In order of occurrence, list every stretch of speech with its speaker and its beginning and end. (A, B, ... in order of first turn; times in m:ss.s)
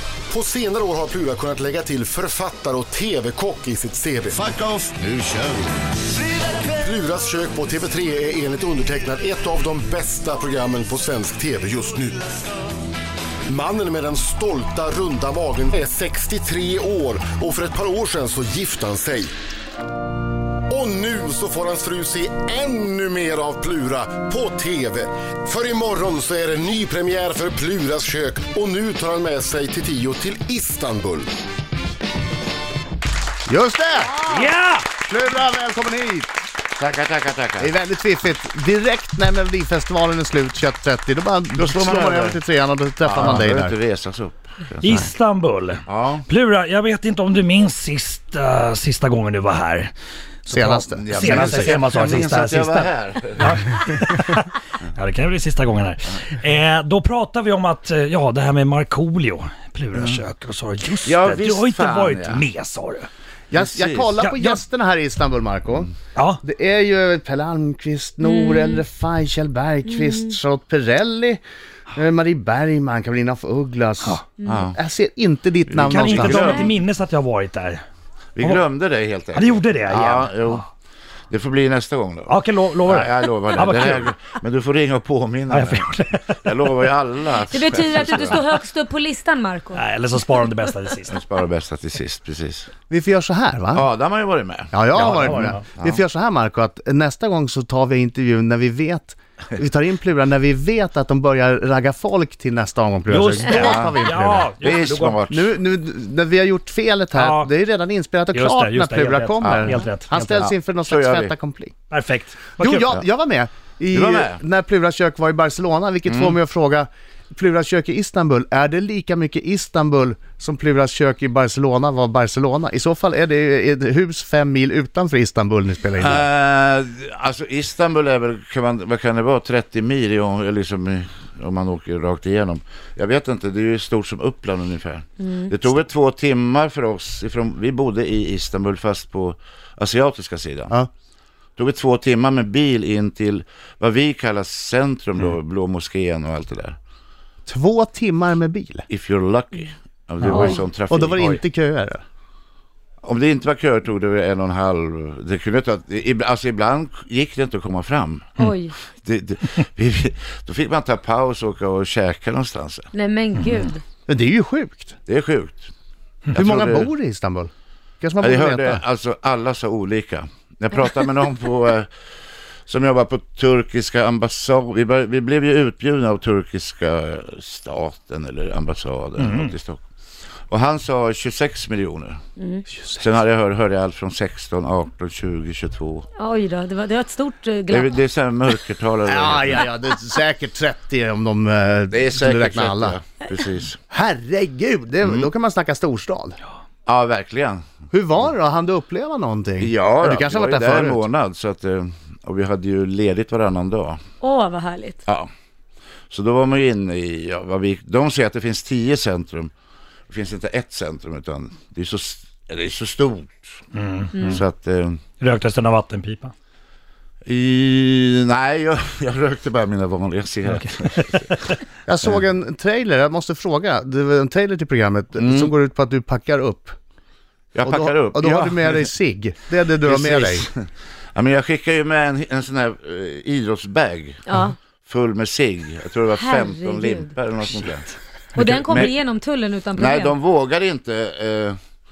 0:00.3-0:04.6 A
0:04.9-0:05.2 B
0:06.7-0:12.4 A
0:13.5-0:19.3 A
0:20.7-0:31.3 A
0:33.4-0:34.4 C
0:34.1-0:34.4 D
0:34.3-0:34.9 E
0:35.0-0:36.3 C
0:36.8-0:37.8 B
0:37.6-0:43.8 C
0:41.6-0:42.4 B
0:43.0-0:45.0 B
0:44.8-0:49.9 E
0:45.9-0:46.3 B
0:50.5-1:03.1 E
0:50.5-0:51.8 C
0:50.9-0:53.6 B
1:01.0-1:02.4 B
1:03.5-1:05.9 C
1:03.5-1:04.2 B
1:04.2-1:04.6 E
1:06.2-1:06.4 E
1:06.4-1:11.4 C
1:08.2-1:08.8 D
1:09.9-1:10.3 D
1:11.9-1:16.6 C
1:14.4-1:14.8 B
1:15.7-1:16.7 B
1:15.8-1:17.8 E
1:16.4-1:16.7 D
1:18.4-1:20.7 B
1:18.4-1:18.6 E
1:19.3-1:20.6 E
1:21.3-1:28.4 B
1:22.3-1:24.2 E
1:25.5-1:26.5 E
1:27.5-1:29.8 D
1:29.7-1:31.2 E
1:31.1-1:32.7 B
1:32.9-1:33.9 C
1:33.7-1:36.0 B
1:34.7-1:44.5 C
1:34.9-1:35.6 E
1:43.1-1:45.2 E
1:43.6-1:44.0 B
1:44.6-1:45.6 B
1:45.3-1:51.7 C
1:47.2-1:47.5 E
1:48.3-1:50.1 E
1:49.4-1:51.3 B
1:51.9-1:52.9 E
1:52.6-2:06.3 C
1:53.9-1:54.4 B
1:56.1-1:56.4 B
2:06.0-2:20.8 B
2:15.2-2:15.5 D
2:21.6-2:26.8 B
2:27.5-2:28.9 C
2:28.9-2:31.4 B
2:30.3-2:32.0 C
2:33.0-2:38.4 B
2:38.4-2:38.8 D
2:39.0-2:42.9 B
2:42.9-2:43.8 D
2:43.4-2:43.6 E
2:44.1-2:45.0 C
2:45.1-2:45.7 B
2:46.3-2:46.9 B
2:46.3-2:48.8 C
2:48.2-2:51.9 B
2:52.7-2:59.8 B
2:59.2-2:59.6 E
3:00.5-3:02.2 B
3:02.4-3:02.6 D
3:02.7-3:03.0 C
3:03.0-3:06.1 B
3:06.2-3:08.0 D
3:07.7-3:09.7 B
3:09.1-3:13.0 C
3:11.9-3:13.8 B
3:13.9-3:16.4 C
3:15.0-3:15.3 B
3:16.9-3:17.6 B
3:17.9-3:21.0 C
3:19.6-3:24.0 B
3:24.2-3:25.0 D
3:26.1-3:29.5 B
3:30.1-3:33.6 B
3:33.7-3:34.4 E
3:34.2-3:35.0 B
3:35.2-3:36.3 E
3:37.2-3:41.3 B
3:40.4-3:41.6 E
3:41.9-3:46.8 C
3:45.2-3:45.5 B
3:47.5-3:48.9 B
3:47.6-3:50.5 C
3:49.8-3:54.2 B
3:54.3-3:54.6 D
3:54.8-3:59.0 B
3:56.2-3:57.1 D
3:58.4-4:00.2 D
3:59.8-4:01.6 B